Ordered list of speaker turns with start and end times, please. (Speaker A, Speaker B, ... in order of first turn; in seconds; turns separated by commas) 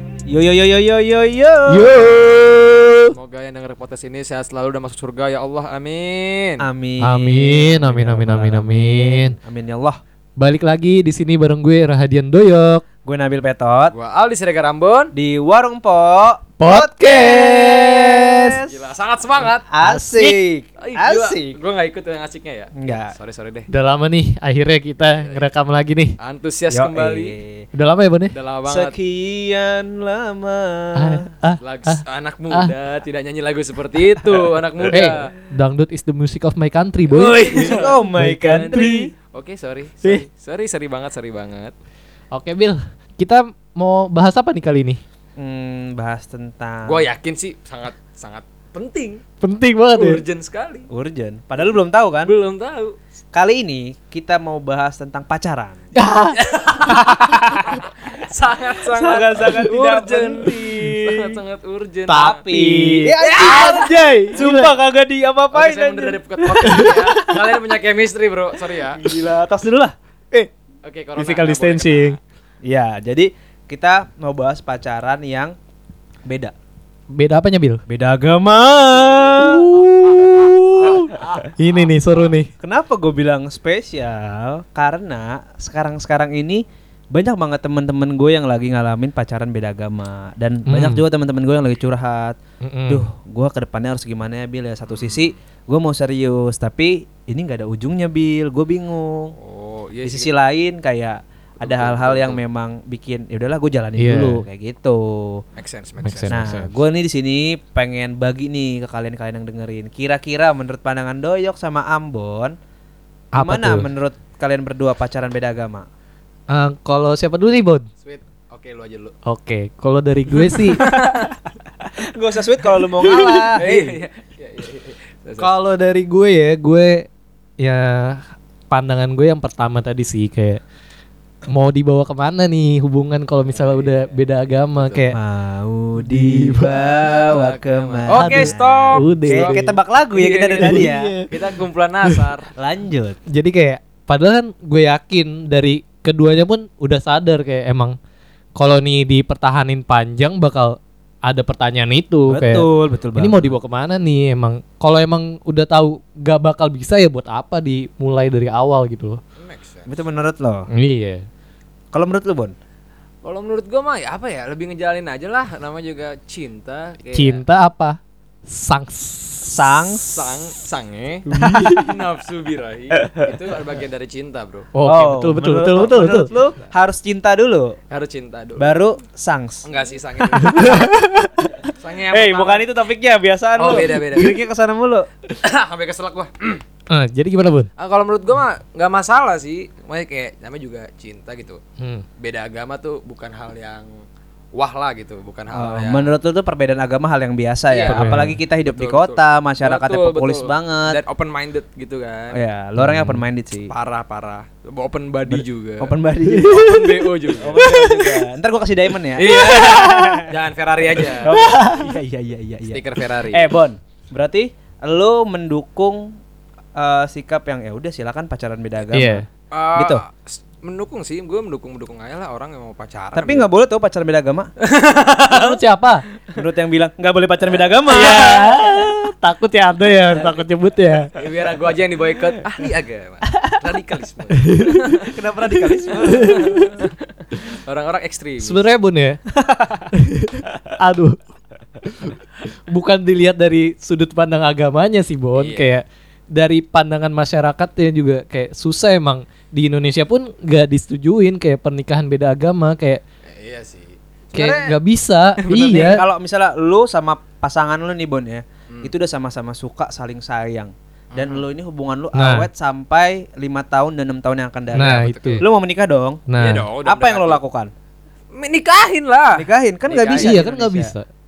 Speaker A: 0.3-2.2, Speaker B: 1.7-3.2, Speaker C: 3.1-6.6, Speaker A: 6.6-10.0, Speaker B: 7.0-9.3, Speaker B: 10.4-12.8, Speaker A: 13.1-13.9, Speaker C: 13.9-15.1, Speaker A: 15.1-18.8, Speaker B: 16.6-18.6, Speaker C: 18.7-19.7, Speaker A: 19.7-21.6, Speaker B: 19.8-20.3, Speaker C: 20.8-23.7, Speaker A: 22.8-23.1, Speaker B: 23.7-26.1, Speaker C: 25.2-25.5, Speaker C: 26.2-27.4, Speaker A: 26.7-27.6, Speaker B: 27.7-28.4, Speaker C: 28.3-28.9, Speaker A: 28.7-31.3, Speaker B: 30.9-32.7, Speaker C: 31.6-35.3, Speaker B: 34.9-37.5, Speaker A: 37.1-39.1, Speaker C: 37.1-41.7, Speaker B: 38.1-39.1, Speaker B: 42.3-45.0, Speaker A: 45.4-47.1, Speaker C: 46.9-49.2, Speaker B: 49.4-50.2, Speaker C: 50.0-50.9, Speaker A: 50.9-52.3, Speaker C: 51.6-53.0, Speaker A: 53.3-55.8, Speaker B: 56.0-56.4, Speaker C: 56.4-62.4, Speaker B: 56.9-57.6, Speaker A: 57.1-57.8, Speaker A: 58.9-61.4, Speaker B: 62.1-64.8, Speaker A: 62.1-67.1, Speaker C: 63.2-64.5, Speaker C: 65.5-69.0, Speaker B: 66.5-67.4, Speaker A: 68.9-70.0, Speaker C: 70.8-72.2, Speaker B: 71.2-72.2, Speaker A: 72.6-75.5, Speaker A: 76.3-76.5, Speaker B: 77.1-77.8, Speaker A: 77.9-79.8, Speaker B: 79.3-82.5, Speaker C: 80.9-81.9, Speaker A: 82.6-99.3, Speaker B: 90.7-91.1, Speaker B: 92.6-93.1, Speaker C: 94.9-95.3, Speaker C: 99.3-100.3, Speaker A: 100.0-105.4, Speaker C: 101.6-102.4, Speaker B: 104.0-104.4, Speaker C: 105.6-106.5, Speaker B: 106.0-106.7, Speaker A: 106.3-112.5, Speaker B: 113.3-113.9, Speaker A: 113.4-115.9, Speaker B: 116.5-117.9, Speaker C: 118.0-119.1, Speaker B: 119.3-120.8, Speaker C: 120.6-121.3, Speaker A: 122.0-124.0, Speaker B: 122.8-123.6, Speaker C: 123.6-125.5, Speaker B: 125.4-127.0, Speaker B: 127.6-130.6, Speaker B: 131.5-135.2, Speaker C: 133.4-135.1, Speaker A: 135.1-141.2, Speaker B: 136.0-137.0, Speaker C: 137.1-142.5, Speaker B: 138.1-139.7, Speaker B: 140.6-141.3, Speaker A: 142.6-143.2, Speaker B: 143.3-147.9, Speaker B: 148.6-159.2, Speaker A: 152.3-153.6, Speaker C: 159.4-159.9, Speaker A: 159.9-160.7, Speaker B: 160.7-161.2, Speaker A: 161.9-162.6, Speaker C: 163.2-167.4, Speaker B: 167.1-169.9, Speaker A: 169.5-170.1, Speaker C: 170.1-174.7, Speaker B: 171.3-171.9, Speaker A: 171.4-171.8, Speaker B: 174.7-176.3, Speaker A: 174.9-177.8, Speaker C: 177.9-178.8, Speaker A: 178.6-179.7, Speaker C: 179.6-180.9, Speaker B: 180.3-181.4, Speaker A: 180.4-180.9, Speaker C: 181.8-182.7, Speaker A: 182.1-185.1, Speaker C: 183.6-184.4, Speaker C: 185.4-186.6, Speaker B: 186.9-187.7, Speaker C: 187.8-191.6, Speaker B: 191.8-192.1, Speaker C: 192.2-193.9, Speaker C: 194.6-196.1, Speaker A: 195.5-201.0, Speaker C: 197.7-202.4, Speaker B: 197.9-198.4, Speaker A: 202.3-203.7, Speaker B: 202.8-203.2, Speaker C: 203.7-208.3, Speaker A: 205.3-210.3, Speaker B: 206.3-206.6, Speaker C: 209.2-211.3, Speaker A: 211.0-216.2, Speaker B: 211.3-211.9, Speaker C: 212.7-213.5, Speaker A: 216.8-220.0, Speaker B: 218.9-219.2, Speaker C: 219.5-223.5, Speaker A: 223.1-224.5, Speaker C: 224.6-225.6, Speaker B: 225.3-226.0, Speaker A: 226.4-228.7, Speaker B: 227.9-231.1, Speaker C: 231.2-235.2, Speaker B: 234.4-234.8, Speaker A: 235.0-236.5, Speaker B: 236.0-236.7, Speaker C: 236.1-238.7, Speaker B: 238.4-239.2, Speaker A: 239.4-239.9, Speaker B: 239.9-241.2, Speaker B: 241.8-242.2, Speaker B: 242.7-253.0, Speaker C: 245.4-245.7, Speaker C: 253.4-254.8, Speaker B: 254.3-256.0, Speaker C: 255.4-256.0, Speaker A: 255.6-266.2, Speaker C: 261.1-261.4, Speaker B: 262.1-262.5, Speaker C: 264.7-265.4, Speaker B: 264.7-265.4, Speaker B: 266.3-266.7, Speaker C: 266.4-267.4, Speaker A: 266.8-267.7, Speaker C: 268.3-270.4, Speaker A: 269.3-270.9, Speaker B: 270.1-271.1